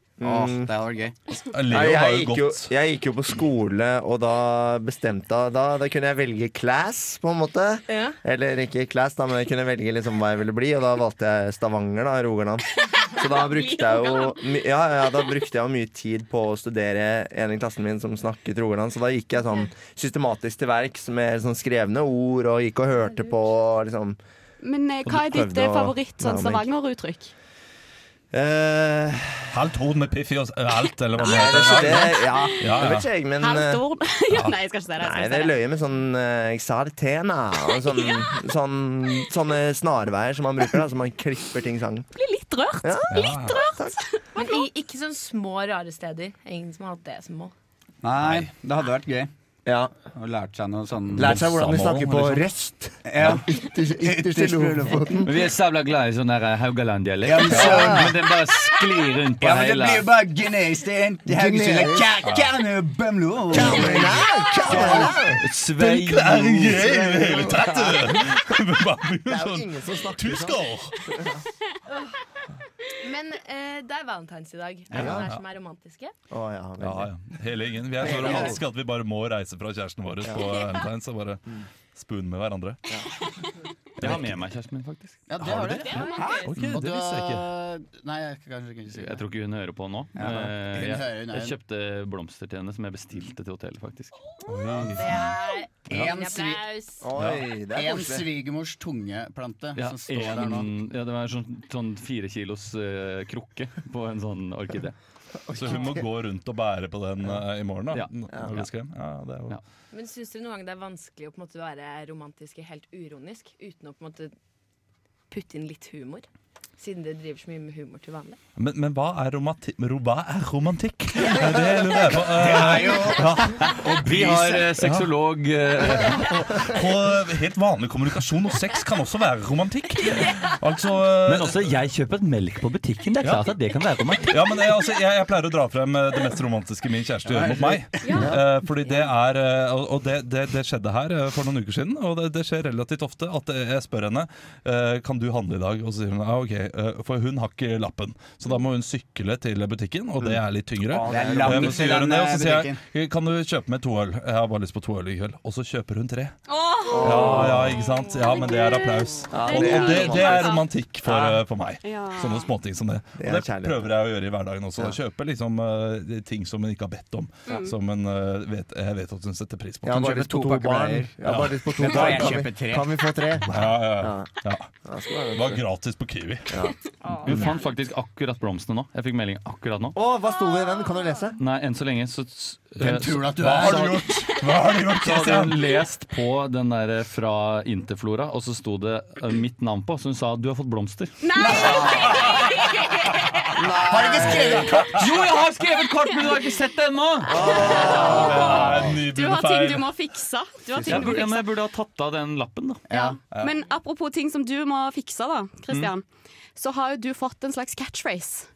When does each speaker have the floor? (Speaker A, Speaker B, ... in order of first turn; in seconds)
Speaker A: 0.2-0.7, 1.7-24.2, 25.0-26.7, 28.3-29.5, 31.2-33.8, 35.0-42.1, 42.8-44.0, 49.6-49.9, 51.1-55.3, 61.3-62.1, 63.5-65.4, 66.8-68.3, 69.2-71.4, 74.9-75.3, 76.3-77.1, 78.0-78.5, 97.0-98.2, 105.5-106.0, 151.0-151.7, 156.9-157.8, 159.3-161.3, 163.2-163.9, 169.8-174.3, 174.8-175.6, 179.9-181.3, 197.3-198.4
Speaker B: 0.2-1.1, 48.0-49.3, 50.1-51.4, 53.0-55.2, 57.2-58.2, 59.4-65.2, 78.0-78.6, 85.3-89.2, 90.2-91.5, 95.9-96.7, 97.7-100.7, 122.3-123.4, 124.1-124.6, 137.3-138.2, 151.1-152.8, 169.9-172.9, 182.8-184.0, 191.4-192.2, 193.6-194.9, 202.9-203.2
Speaker C: 1.4-2.7, 29.5-33.1, 43.1-43.6, 48.2-48.5, 51.2-52.4, 64.7-65.0, 65.8-71.0, 74.9-75.4, 76.8-82.8, 84.0-84.3, 85.4-87.5, 94.5-95.3, 97.2-97.4, 105.5-109.6, 118.6-125.1, 125.8-131.6, 133.2-133.5, 134.3-156.3, 157.0-170.1, 171.2-172.3, 173.5-174.7, 175.3-176.6, 183.4-185.6, 197.3-199.9
Speaker D: 7.9-8.2, 44.3-47.5, 73.0-76.1, 86.0-86.4, 94.9-97.0, 109.9-114.3, 115.3-116.3, 116.8-118.4
Speaker E: 13.3-14.4, 24.6-27.3, 33.4-35.6, 37.9-38.2, 42.1-44.6, 138.0-138.3, 156.5-160.6, 161.8-162.5, 167.5-167.7, 191.2-193.5, 197.3-201.5, 202.9-206.0, 206.6-208.5
Speaker F: 55.2-60.1, 64.7-66.9, 84.0-85.8, 88.9-94.1, 99.8-104.9, 107.9-108.7, 123.9-126.2, 131.2-134.3, 177.2-179.9, 181.4-184.0, 185.0-191.1, 194.9-198.1, 200.8-202.8